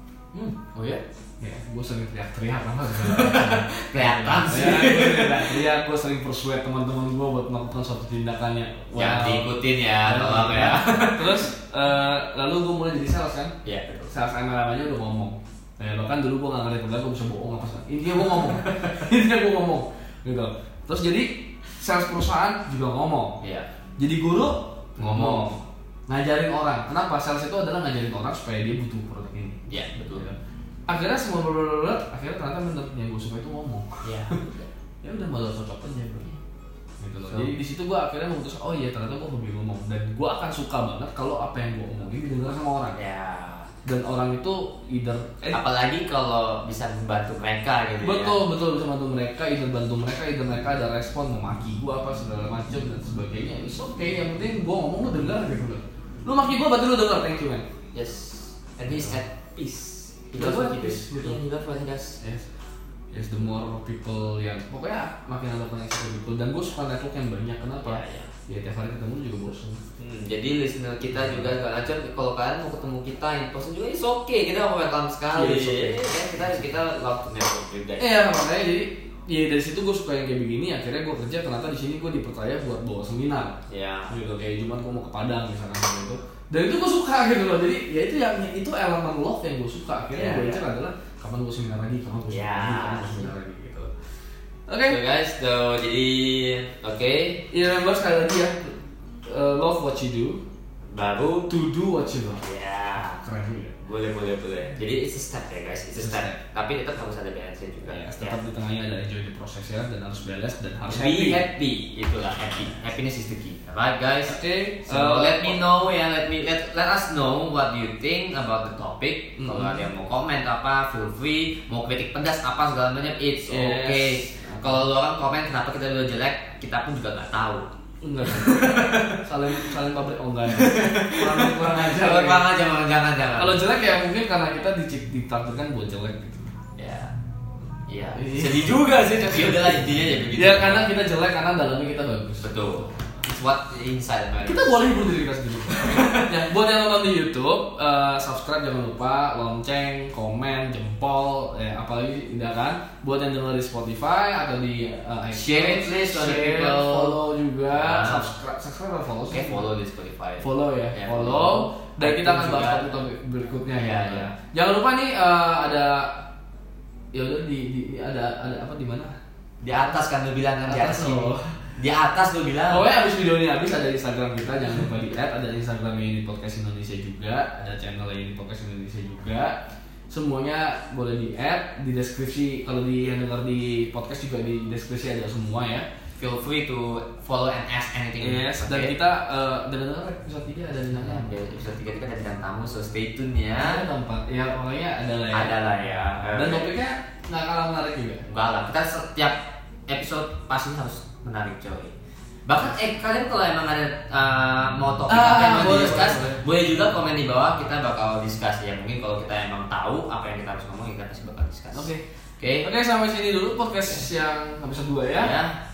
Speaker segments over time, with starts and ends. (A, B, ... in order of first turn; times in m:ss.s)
0:00.3-0:00.8 A
0:00.8-0:13.5 B
0:03.0-0:05.6 A
0:09.0-0:11.5 A
0:13.6-0:14.1 A
0:14.1-0:23.4 B
0:18.2-0:19.0 A
0:23.4-0:23.7 A
0:24.0-0:29.6 B
0:25.0-0:25.6 A
0:29.7-0:30.3 A
0:30.9-0:34.4 B
0:34.0-0:34.7 A
0:35.0-0:36.3 B
0:37.0-0:43.0 B
0:37.2-0:37.5 A
0:43.0-0:43.7 A
0:43.8-0:45.6 B
0:45.5-0:48.4 A
0:48.0-0:57.7 B
0:57.9-1:02.2 A
0:58.9-0:59.2 B
1:00.4-1:01.4 B
1:02.2-1:02.5 B
1:03.1-1:09.8 B
1:07.8-1:08.3 A
1:10.0-1:18.1 A
1:11.1-1:11.5 B
1:15.3-1:16.2 B
1:18.0-1:23.6 B
1:23.7-1:24.1 A
1:24.1-1:33.9 B
1:30.1-1:30.6 A
1:32.3-1:33.3 A
1:34.7-1:35.0 B
1:34.9-1:37.5 A
1:37.5-1:38.8 B
1:39.3-1:40.4 B
1:40.9-1:41.5 A
1:41.5-1:42.4 B
1:42.4-1:43.2 A
1:43.2-1:43.8 B
1:43.8-1:48.4 A
1:46.0-1:46.4 B
1:47.8-1:51.4 B
1:50.9-2:07.7 A
1:54.3-1:55.6 B
1:59.4-1:59.9 B
2:03.4-2:04.8 B
2:08.0-2:12.5 B
2:08.2-2:09.7 A
2:10.5-2:13.6 A
2:13.4-2:16.5 B
2:16.8-2:17.1 A
2:17.9-2:20.9 A
2:18.1-2:19.6 B
2:20.3-2:22.5 B
2:22.4-2:24.8 A
2:24.4-2:39.7 B
2:25.7-2:26.4 A
2:35.3-2:37.2 A
2:37.7-2:38.3 A
2:39.3-2:42.9 A
2:40.4-2:46.2 B
2:43.8-2:44.3 A
2:47.1-2:49.1 B
2:49.6-2:52.9 A
2:50.7-2:51.6 B
2:52.7-3:05.8 B
3:06.2-3:09.0 A
3:08.2-3:11.3 B
3:10.9-3:13.8 A
3:13.6-3:15.6 B
3:15.3-3:16.7 A
3:16.3-3:18.2 B
3:18.3-3:21.9 A
3:22.5-3:32.7 A
3:25.1-3:26.4 B
3:31.7-3:32.0 B
3:32.6-3:35.4 B
3:35.2-3:35.6 A